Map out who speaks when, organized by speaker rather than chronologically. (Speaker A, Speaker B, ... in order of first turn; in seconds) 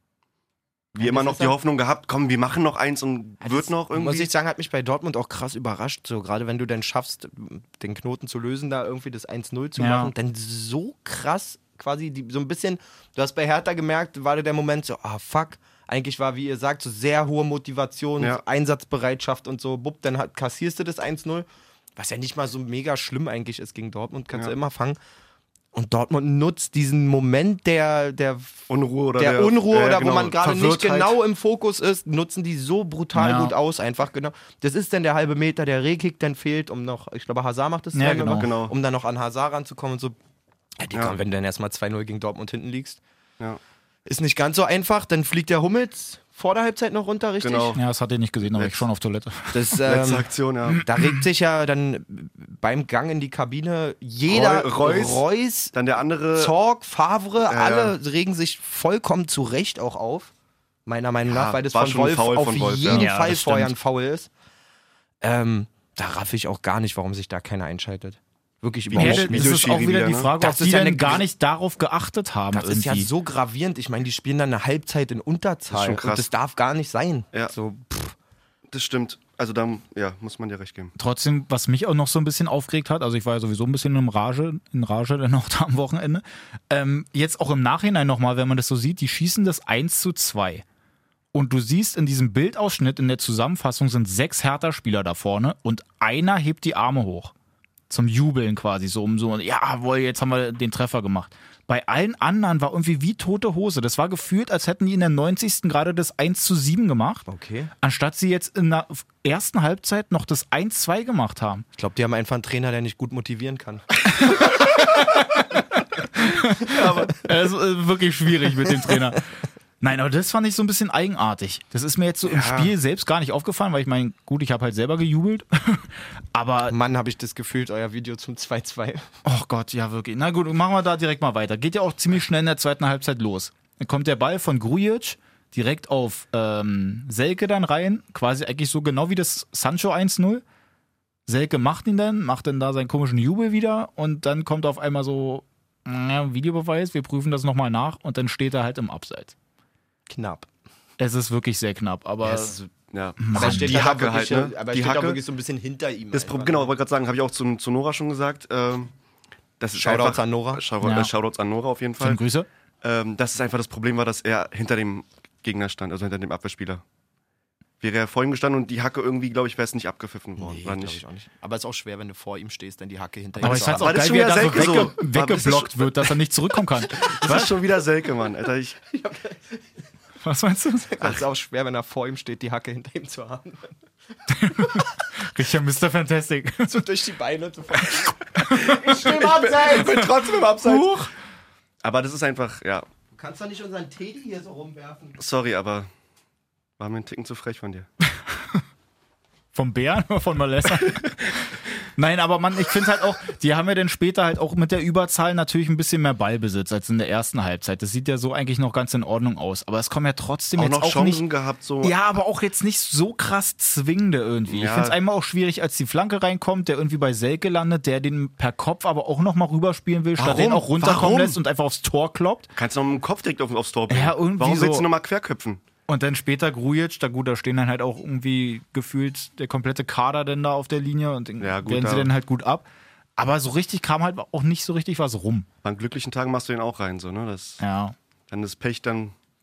Speaker A: 1.0-1.6, 3.4-25.0, 25.7-28.6, 29.2-40.2, 40.8-43.0, 44.1-47.8, 49.5-55.8, 56.3-60.3, 60.9-64.3, 65.2-69.7, 70.4-71.2, 72.5-78.2, 107.3-107.7, 111.8-114.5, 122.3-122.7, 126.7-129.1, 150.1-150.5, 152.2-152.7, 153.3-156.7, 159.8-160.6, 170.4-174.6, 178.9-179.6, 180.9-183.8, 184.6-184.9, 186.6-190.1, 193.2-195.2
Speaker B: 1.0-4.3, 28.7-31.2, 38.0-38.7, 47.4-47.8, 48.5-48.8, 49.8-50.9, 54.3-56.5, 57.5-58.0, 61.3-63.1, 68.9-70.3, 75.7-76.3, 78.7-80.9, 116.7-117.2, 152.9-155.2, 156.1-158.9, 159.6-162.2, 162.8-166.8, 167.8-171.0, 173.4-176.1, 177.1-178.8, 188.5-191.0, 191.8-192.9, 195.2-195.9, 196.8-197.9, 210.6-211.9, 214.5-215.0, 220.2-221.4, 222.6-225.6, 231.4-232.1, 235.6-237.6, 238.3-239.1
Speaker C: 9.8-10.1, 33.1-33.5, 38.0-38.5, 47.8-49.8, 50.8-51.2, 62.9-63.7, 69.0-73.1, 81.0-90.6, 91.3-97.3, 97.9-107.3, 107.8-111.7, 114.2-115.6, 116.2-119.2, 119.8-126.7, 129.2-140.4, 141.3-149.3, 151.0-152.6, 153.2-153.8, 160.8-161.1, 162.0-162.5, 173.4-177.6, 180.2-181.2, 184.3-186.8, 189.8-191.1, 198.3-198.6, 199.6-211.2, 211.8-222.5, 223.9-224.9, 225.9-232.7, 233.2-235.5, 237.6-237.9